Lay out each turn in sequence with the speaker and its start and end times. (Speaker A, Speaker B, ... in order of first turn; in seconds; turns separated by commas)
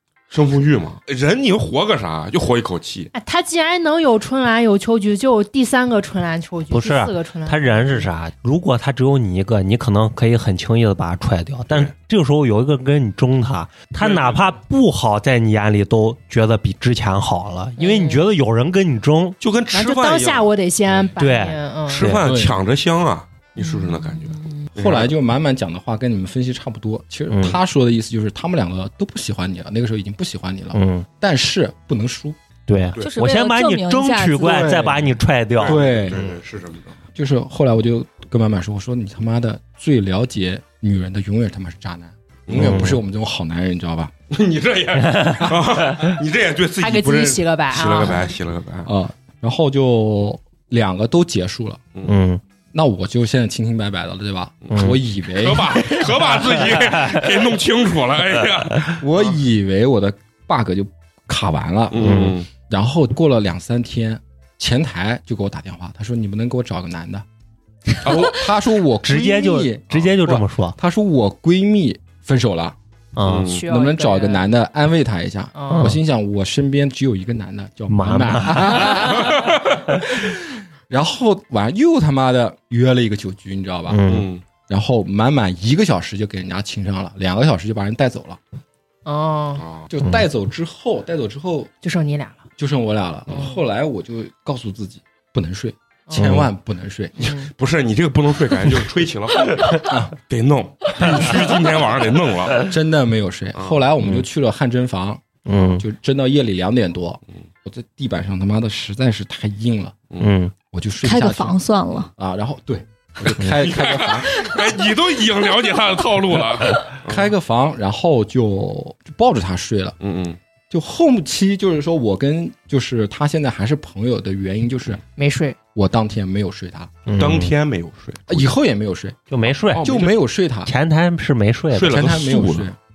Speaker A: 0.3-3.1, Speaker B: 3.1-8.1, Speaker C: 6.7-19.4, Speaker A: 14.0-14.5, Speaker B: 17.8-18.2, Speaker A: 19.4-20.5, Speaker B: 19.7-22.1, Speaker C: 21.2-22.2, Speaker A: 21.9-25.1, Speaker D: 22.2-22.6, Speaker B: 23.6-24.7, Speaker D: 24.8-32.4, Speaker C: 27.3-27.6, Speaker C: 30.7-31.1, Speaker C: 32.7-36.1, Speaker E: 33.0-34.8, Speaker D: 34.4-36.3, Speaker A: 35.6-37.0, Speaker D: 37.1-44.1, Speaker A: 42.5-43.0, Speaker C: 42.5-43.0, Speaker A: 44.3-48.9, Speaker C: 45.0-46.1, Speaker B: 46.8-48.3, Speaker D: 48.9-51.8, Speaker C: 52.0-52.4, Speaker D: 52.7-56.1, Speaker A: 54.6-59.4, Speaker C: 56.8-57.2, Speaker D: 59.0-67.2, Speaker A: 61.9-62.5, Speaker C: 62.0-62.4, Speaker D: 68.0-72.8, Speaker C: 69.0-70.8, Speaker C: 73.1-73.5, Speaker A: 73.2-73.7, Speaker B: 73.4-74.5, Speaker D: 73.6-84.0, Speaker B: 75.5-76.0, Speaker C: 75.7-76.0, Speaker C: 77.9-79.3, Speaker A: 79.2-79.6, Speaker C: 83.9-84.3, Speaker A: 84.0-84.4, Speaker D: 84.7-88.4, Speaker B: 89.0-89.7, Speaker A: 89.6-89.9, Speaker D: 89.9-91.7, Speaker B: 91.8-92.5, Speaker D: 92.6-97.3, Speaker B: 93.3-93.6, Speaker B: 96.1-96.4, Speaker C: 96.1-96.5, Speaker B: 97.2-97.5, Speaker A: 97.3-102.7, Speaker D: 99.8-100.1, Speaker D: 102.5-110.0, Speaker A: 103.5-103.8, Speaker C: 105.4-105.8, Speaker C: 110.2-110.5, Speaker D: 110.7-111.6, Speaker E: 111.0-112.1, Speaker D: 112.2-114.5, Speaker A: 113.2-117.3, Speaker D: 117.0-120.0, Speaker A: 120.0-120.4, Speaker D: 120.7-125.0, Speaker B: 125.2-125.6, Speaker D: 125.7-126.9, Speaker C: 127.0-127.5, Speaker A: 127.1-128.6, Speaker D: 128.3-129.2, Speaker C: 129.3-129.9, Speaker A: 129.5-130.2, Speaker D: 129.8-130.7, Speaker C: 130.6-132.2, Speaker A: 131.7-132.7, Speaker D: 131.8-132.8